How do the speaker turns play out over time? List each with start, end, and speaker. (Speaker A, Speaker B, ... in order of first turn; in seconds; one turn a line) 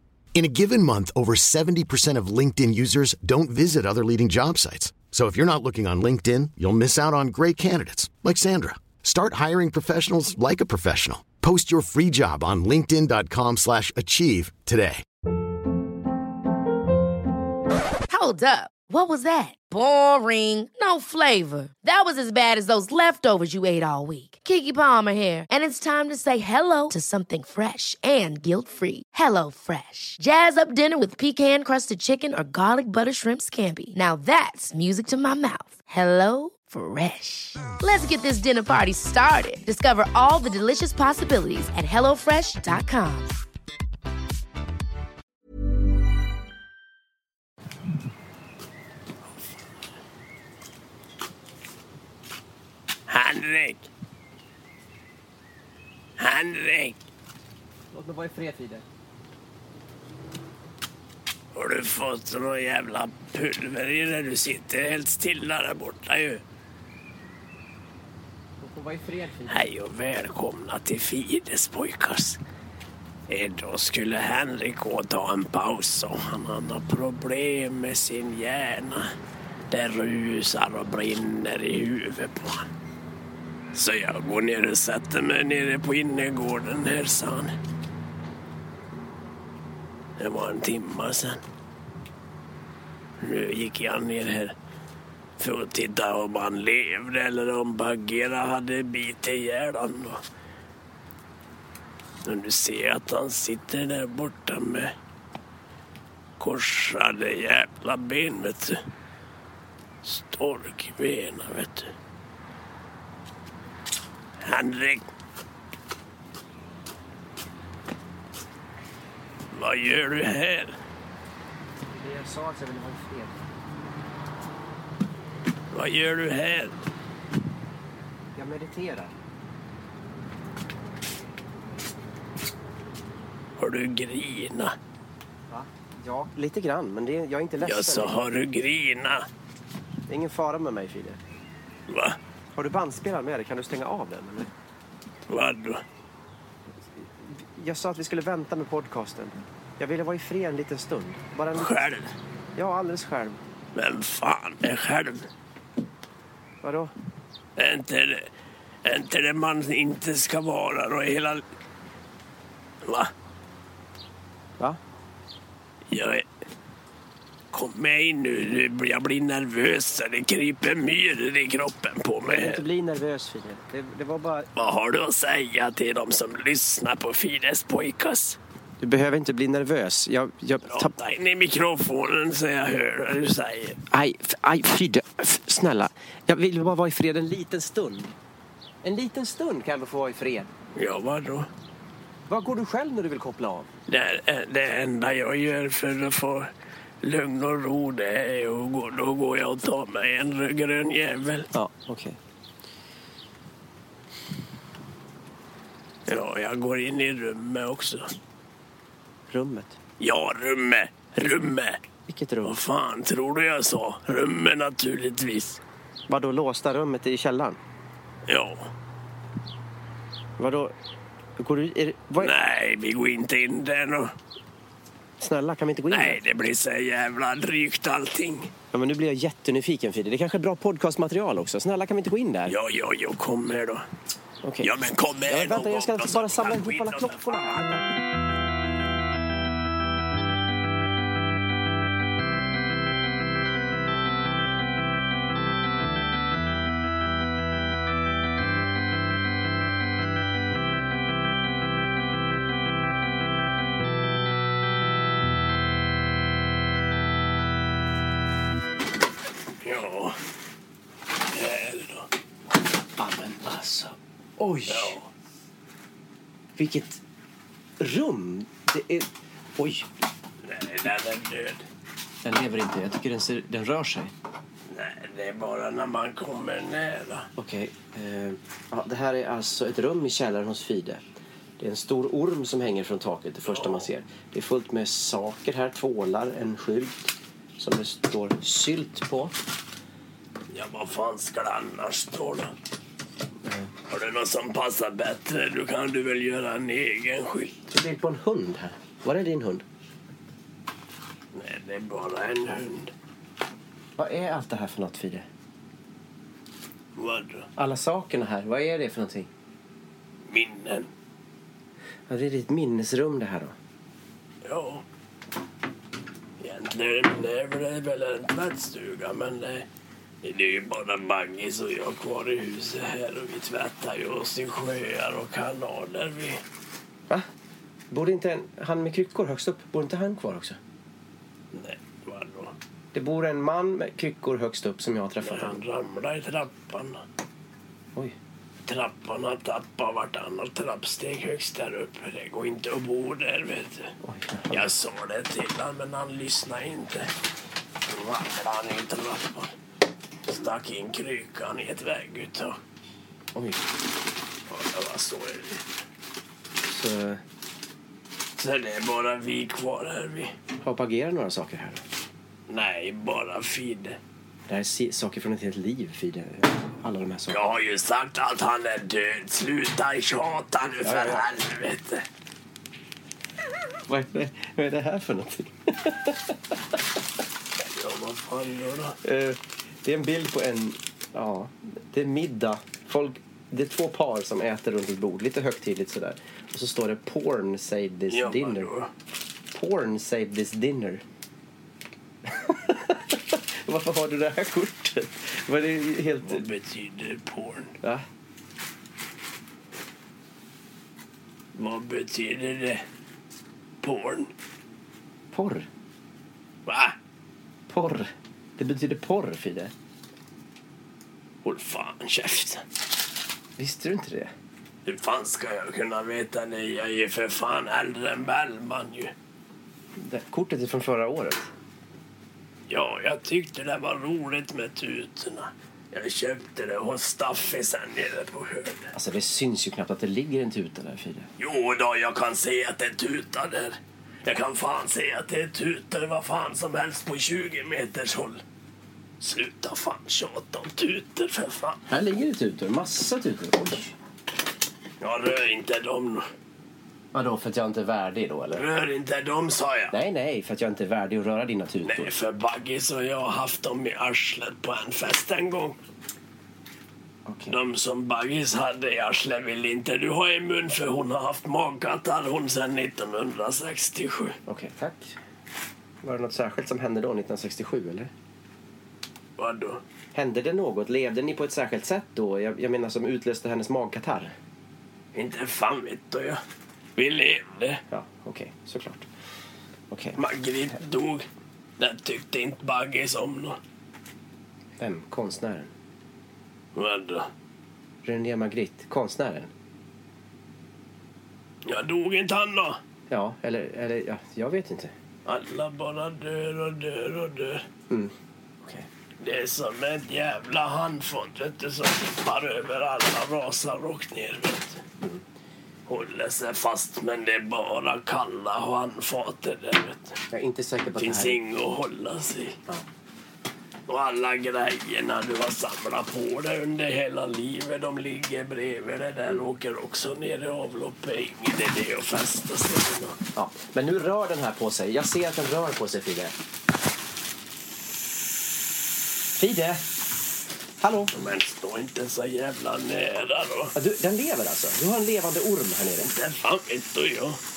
Speaker A: 0.3-15.0
Speaker B: 18.1-43.3
Speaker C: 53.1-53.9
Speaker C: 56.2-57.0
Speaker D: 57.9-58.9
Speaker C: 61.5-66.4
Speaker D: 68.6-69.6
Speaker C: 69.5-72.4
Speaker C: 73.3-79.1
Speaker C: 79.7-82.7
Speaker C: 83.7-87.5
Speaker C: 90.2-91.4
Speaker C: 93.2-94.5
Speaker C: 95.4-100.2
Speaker C: 102.2-104.9
Speaker C: 106.4-108.8
Speaker C: 110.0-111.9
Speaker C: 114.4-115.1
Speaker C: 119.5-120.8
Speaker D: 121.9-123.4
Speaker C: 125.7-126.7
Speaker D: 128.3-129.1
Speaker C: 133.6-134.7
Speaker D: 135.5-138.2
Speaker C: 137.6-139.2
Speaker D: 140.1-141.2
Speaker C: 141.9-142.2
Speaker D: 142.5-144.5
Speaker C: 145.3-145.8
Speaker D: 146.7-151.9
Speaker C: 151.5-152.1
Speaker D: 152.5-153.4
Speaker C: 153.7-155.3
Speaker D: 156.6-156.9
Speaker C: 157.6-158.3
Speaker C: 158.8-161.4
Speaker C: 162.8-163.1
Speaker C: 165.9-166.2
Speaker C: 167.5-172.6
Speaker D: 172.2-174.5
Speaker C: 174.6-178.4
Speaker D: 178.8-180.9
Speaker C: 180.7-183.8
Speaker D: 183.9-188.1
Speaker D: 188.8-190.5
Speaker C: 190.7-191.5
Speaker D: 192.3-193.7
Speaker C: 193.9-196.5
Speaker C: 197.0-201.5
Speaker D: 201.5-202.2
Speaker C: 206.1-208.1
Speaker D: 209.3-209.8
Speaker C: 210.0-211.8
Speaker D: 212.1-212.6
Speaker C: 212.4-215.6
Speaker D: 216.1-217.6
Speaker C: 218.3-218.7
Speaker D: 220.4-220.7
Speaker D: 221.4-222.3
Speaker C: 222.2-224.1
Speaker D: 225.2-226.2
Speaker C: 225.9-228.5
Speaker D: 228.7-232.6
Speaker C: 232.5-233.8
Speaker D: 234.4-234.7
Speaker C: 234.6-237.6
Speaker D: 235.3-237.9
Speaker C: 259.6-260.2
Speaker C: 261.3-262.1
Speaker D: 263.0-264.9
Speaker C: 264.7-265.1
Speaker D: 266.6-267.0
Speaker D: 267.8-269.9
Speaker C: 270.4-271.6
Speaker D: 272.2-274.1
Speaker C: 274.7-277.3
Speaker D: 277.4-281.0
Speaker D: 281.6-289.3
Speaker C: 283.5-283.8
Speaker C: 290.5-292.5
Speaker D: 293.4-293.7
Speaker C: 293.9-297.7
Speaker D: 297.7-299.6
Speaker C: 301.3-302.9
Speaker D: 304.0-305.2
Speaker C: 306.9-307.5
Speaker D: 307.6-309.3
Speaker C: 310.3-310.9
Speaker D: 312.1-313.6
Speaker C: 314.4-314.8
Speaker C: 316.4-319.7
Speaker C: 320.2-326.4
Speaker D: 327.9-330.6
Speaker C: 331.5-332.5
Speaker D: 332.9-335.6
Speaker C: 335.2-337.0
Speaker C: 338.6-343.9
Speaker D: 344.0-344.7
Speaker C: 344.5-347.1
Speaker C: 347.9-349.5
Speaker C: 350.2-352.6
Speaker D: 353.3-353.6
Speaker C: 354.5-355.6
Speaker D: 356.6-357.2
Speaker C: 358.4-360.3
Speaker D: 360.6-361.8
Speaker C: 362.5-364.0
Speaker D: 364.5-367.4
Speaker C: 367.3-372.0
Speaker D: 370.8-371.3
Speaker D: 373.9-376.6
Speaker C: 377.7-379.0
Speaker D: 379.0-388.7
Speaker C: 388.1-388.9
Speaker D: 389.5-391.0
Speaker D: 392.2-396.4
Speaker C: 396.2-397.8
Speaker C: 401.5-402.8
Speaker C: 403.8-404.3
Speaker D: 405.3-405.7
Speaker C: 406.6-406.9
Speaker D: 407.7-409.7
Speaker C: 411.4-412.6
Speaker D: 413.6-414.3
Speaker C: 414.9-419.1
Speaker D: 420.0-421.5
Speaker C: 422.7-428.9
Speaker D: 428.9-431.3
Speaker C: 431.4-438.4
Speaker C: 439.2-441.8
Speaker D: 441.9-443.9
Speaker C: 445.0-446.2
Speaker D: 447.1-448.6
Speaker C: 448.5-449.9
Speaker D: 449.9-452.1
Speaker C: 451.8-455.8
Speaker D: 457.2-457.6
Speaker C: 457.5-464.4
Speaker D: 464.5-465.2
Speaker D: 466.0-468.1
Speaker C: 469.4-469.8
Speaker D: 470.1-474.3
Speaker C: 475.1-476.4
Speaker C: 476.9-477.8
Speaker D: 477.9-479.1
Speaker D: 479.9-480.2
Speaker C: 480.2-481.2
Speaker C: 481.8-483.6
Speaker D: 484.8-485.7
Speaker C: 486.7-487.3
Speaker D: 488.0-489.5
Speaker C: 491.6-492.8
Speaker D: 493.1-494.9
Speaker C: 495.2-497.6
Speaker D: 497.9-498.9
Speaker C: 499.2-504.8
Speaker C: 505.9-510.2
Speaker D: 510.3-511.4
Speaker C: 511.0-512.6
Speaker C: 513.9-523.2
Speaker D: 523.3-526.3
Speaker D: 529.4-529.8
Speaker D: 530.8-531.1
Speaker C: 531.1-533.7
Speaker D: 533.7-536.1
Speaker C: 536.0-537.4